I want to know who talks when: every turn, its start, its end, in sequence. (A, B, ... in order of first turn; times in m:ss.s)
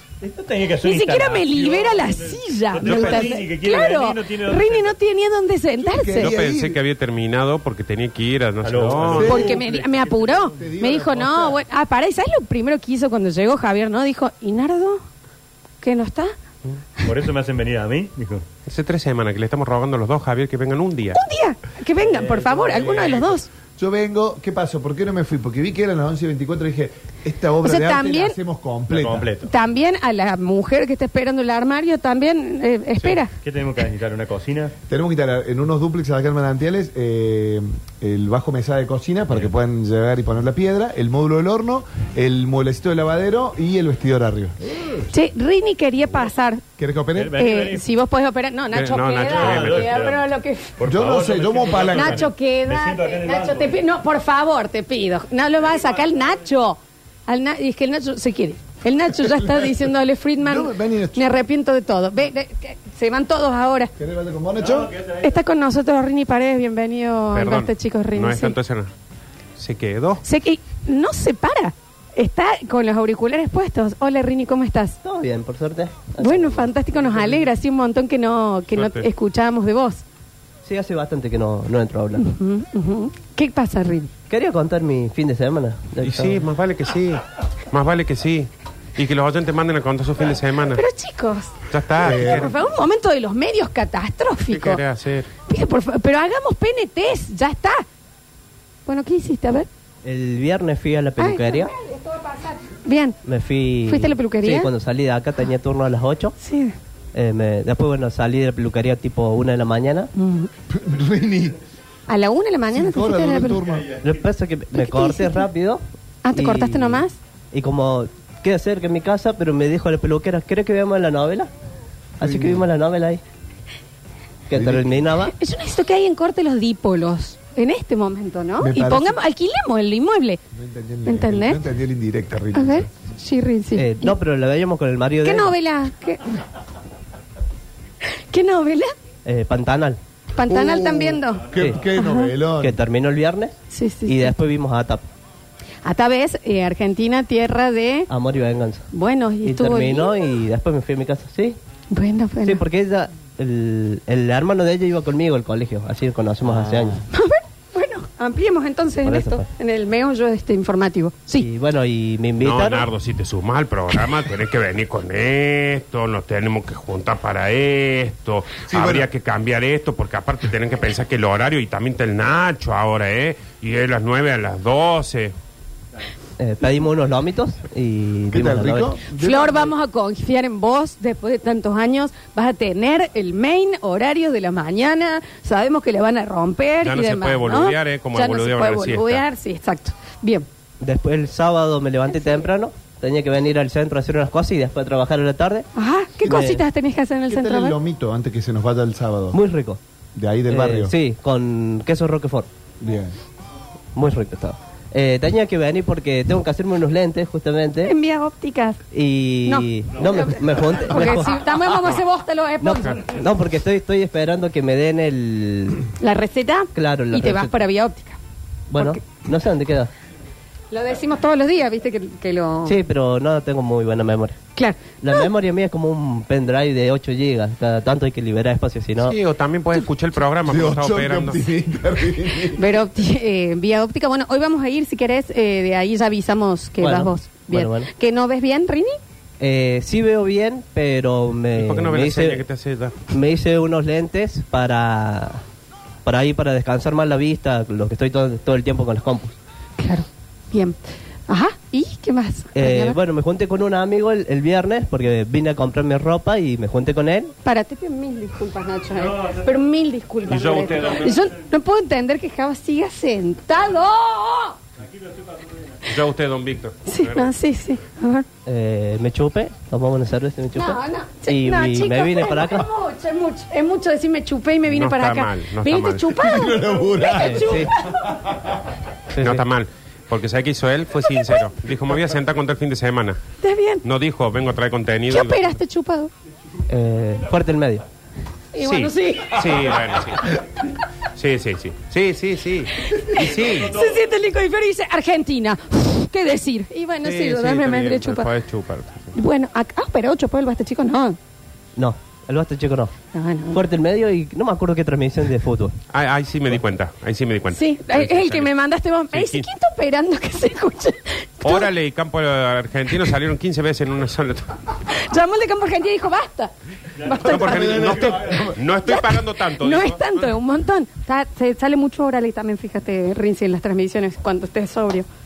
0:00.2-0:05.0 A
0:00.8-0:06.3 B
0:02.8-0:03.3 C
0:05.8-0:06.8 D
0:06.2-0:09.4 C
0:08.6-0:10.7 A
0:09.1-0:09.6 D
0:09.2-0:15.0 B
0:10.6-0:11.6 D
0:15.8-0:16.4 B
0:17.0-0:18.4 A
0:18.7-0:21.2 C
0:21.1-0:23.5 B
0:22.0-0:23.4 A
0:23.8-0:29.3 D
0:27.6-0:28.4 B
0:28.9-0:29.5 A
0:29.4-0:33.3 B
0:33.0-0:34.7 A
0:34.9-0:45.1 D
0:45.1-0:46.6 B
0:46.8-0:47.4 D
0:47.2-0:47.9 A
0:47.4-0:50.8 B
0:48.7-0:49.9 C
0:49.2-0:50.3 A
0:50.8-0:53.7 A
0:50.8-0:52.3 D
0:51.9-1:03.9 B
1:00.4-1:01.2 D
1:04.0-1:05.0 D
1:04.7-1:05.2 A
1:05.2-1:08.6 B
1:07.3-1:08.9 C
1:09.6-1:10.2 C
1:10.2-1:15.0 B
1:15.0-1:17.5 E
1:16.2-1:20.0 B
1:18.7-1:19.1 C
1:20.6-1:22.3 E
1:22.2-1:24.1 B
1:24.3-1:26.4 E
1:26.0-1:30.8 C
1:30.7-1:34.8 B
1:31.7-1:32.6 C
1:32.0-1:32.5 D
1:34.5-1:35.3 C
1:35.5-1:37.8 B
1:38.9-1:39.7 B
1:40.0-1:41.7 E
1:41.2-1:43.2 B
1:43.2-1:46.4 E
1:43.9-1:44.7 B
1:46.4-1:46.8 B
1:47.1-1:50.1 E
1:50.2-1:50.5 B
1:50.7-1:51.6 D
1:52.1-1:53.6 B
1:52.7-1:53.9 D
1:54.0-2:01.5 E
1:54.7-1:55.4 B
1:56.2-1:57.2 B
2:02.2-2:03.2 E
2:02.2-2:02.7 D
2:04.5-2:05.3 E
2:04.5-2:05.0 D
2:05.2-2:10.4 B
2:08.6-2:09.2 D
2:10.5-2:12.9 D
2:11.1-2:11.6 B
2:12.5-2:14.2 B
2:13.8-2:15.6 E
2:15.2-2:16.4 B
2:18.0-2:18.9 B
2:19.2-2:20.0 E
2:20.4-2:22.3 B
2:20.5-2:22.8 D
2:21.6-2:21.8 E
2:22.6-2:23.6 E
2:23.7-2:24.3 B
2:24.1-2:25.1 E
2:25.8-2:28.1 B
2:28.1-2:28.9 E
2:28.9-2:30.4 B
2:29.4-2:31.6 E
2:31.9-2:32.6 B
2:32.4-2:37.0 E
2:37.1-2:41.5 B
2:39.0-2:39.5 E
2:41.4-2:42.9 E
2:42.4-2:55.4 C
2:48.7-2:49.1 D
2:56.4-2:59.0 E
2:58.3-2:59.7 D
2:59.2-3:10.5 B
3:06.8-3:09.2 C
3:10.8-3:15.7 E
3:15.8-3:17.8 B
3:16.2-3:16.6 D
3:16.2-3:16.6 E
3:17.3-3:19.4 D
3:19.3-3:19.8 E
3:20.2-3:20.9 D
3:20.5-3:22.5 E
3:22.8-3:23.2 D
3:24.0-3:28.0 E
3:27.8-3:28.8 B
3:28.9-3:31.5 E
3:29.4-3:33.0 B
3:32.6-3:35.9 E
3:36.0-3:38.2 B
3:36.7-3:37.6 E
3:38.7-3:39.9 E
3:38.8-3:39.0 B
3:40.7-3:42.8 B
3:42.6-3:44.4 E
3:44.6-3:45.3 B
3:45.0-3:49.2 E
3:49.0-3:51.5 C
3:50.4-3:52.6 D
3:52.6-3:59.0 B
3:56.8-3:57.9 E
3:59.4-4:02.4 E
4:01.6-4:03.0 C
4:03.1-4:05.4 E
4:06.0-4:09.4 E
4:09.8-4:13.0 B
4:12.5-4:17.3 E
4:17.4-4:24.6 B
4:20.3-4:21.2 C
4:25.9-4:27.3 C
4:26.9-4:28.3 B
4:28.5-4:32.7 E
4:30.6-4:38.2 B
4:34.7-4:36.2 C
4:36.2-4:37.6 D
4:37.1-4:37.7 E
4:39.1-4:39.4 E
4:39.2-4:43.2 C
4:41.1-4:41.4 B
4:43.4-4:43.8 B
4:43.8-4:45.6 C
4:45.1-4:46.1 B
4:46.7-4:47.8 E
4:48.5-4:49.8 B
4:48.6-4:50.3 C
4:51.2-4:53.8 C
4:52.9-4:58.3 B
4:57.0-4:59.2 C
4:59.1-5:01.2 B
5:01.8-5:02.9 E
5:03.1-5:03.6 B
5:03.5-5:05.8 E
5:05.9-5:08.5 C
5:07.5-5:11.7 B
5:09.1-5:09.5 C
5:11.4-5:14.6 C
5:14.8-5:18.1 B
5:17.2-5:20.3 C
5:17.4-5:18.6 D
5:18.8-5:25.1 B